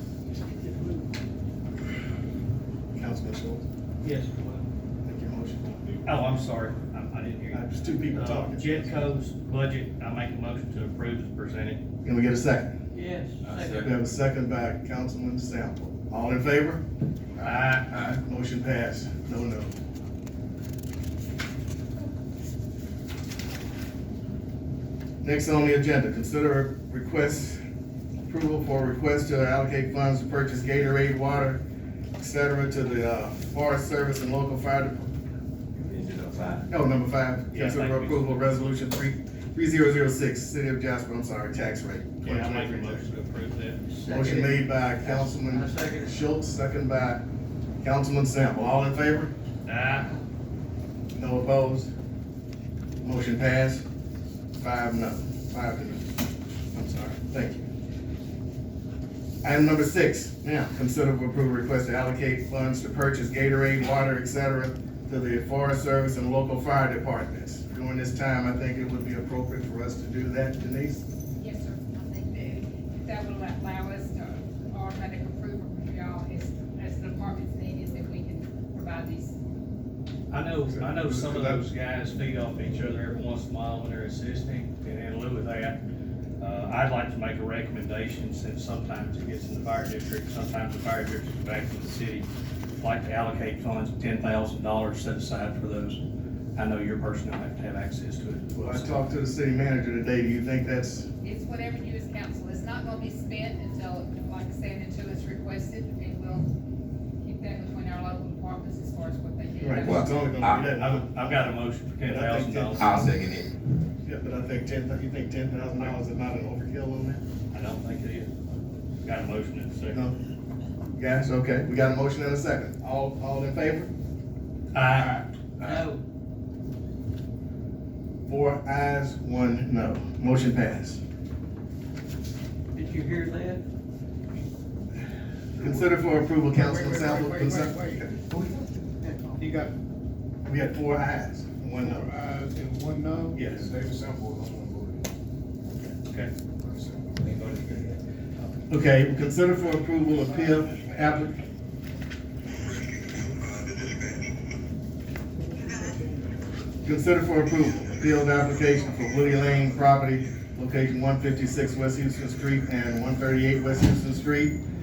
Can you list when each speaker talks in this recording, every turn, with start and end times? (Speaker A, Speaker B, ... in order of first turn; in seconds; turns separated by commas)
Speaker A: 2.9-3.6, Speaker B: 4.0-4.7, Speaker A: 5.0-6.0, Speaker B: 6.0-11.8, Speaker A: 7.5-9.1, Speaker A: 12.0-12.7, Speaker C: 12.9-13.9, Speaker D: 13.4-13.7, Speaker A: 13.7-16.8, Speaker A: 17.3-19.7, Speaker B: 17.4-18.1, Speaker A: 25.2-27.6, Speaker A: 28.2-31.6, Speaker A: 32.2-35.1, Speaker D: 35.8-36.6, Speaker A: 36.7-43.1, Speaker B: 37.5-38.5, Speaker B: 42.2-44.2, Speaker C: 44.0-46.2, Speaker A: 44.1-47.2, Speaker A: 47.8-49.3, Speaker B: 49.6-50.1, Speaker A: 51.1-51.9, Speaker A: 53.0-53.8, Speaker A: 54.6-56.1, Speaker A: 56.7-57.7, Speaker A: 59.4-71.1, Speaker E: 71.4-79.4, Speaker B: 80.3-85.8, Speaker F: 80.9-81.6, Speaker B: 86.4-92.3, Speaker B: 92.8-96.0, Speaker B: 96.5-99.0, Speaker A: 98.5-101.1, Speaker E: 101.2-106.5, Speaker E: 107.2-110.2, Speaker A: 109.6-111.4, Speaker D: 109.8-110.7, Speaker B: 110.7-113.0, Speaker A: 112.0-113.1, Speaker D: 112.8-113.5, Speaker A: 114.0-117.2, Speaker B: 117.5-118.4, Speaker B: 119.0-120.0, Speaker A: 120.9-123.9, Speaker B: 124.7-125.2, Speaker C: 125.6-126.0, Speaker A: 128.2-131.0, Speaker C: 132.7-133.6, Speaker A: 135.5-138.2, Speaker F: 135.6-136.0, Speaker F: 136.5-138.2, Speaker C: 139.0-139.4, Speaker F: 139.4-139.7, Speaker A: 140.4-142.1, Speaker F: 141.8-145.1, Speaker A: 143.3-143.7, Speaker B: 146.1-146.3, Speaker F: 146.6-147.2, Speaker D: 147.2-148.0, Speaker A: 148.7-151.4, Speaker F: 153.5-153.8, Speaker A: 156.8-164.6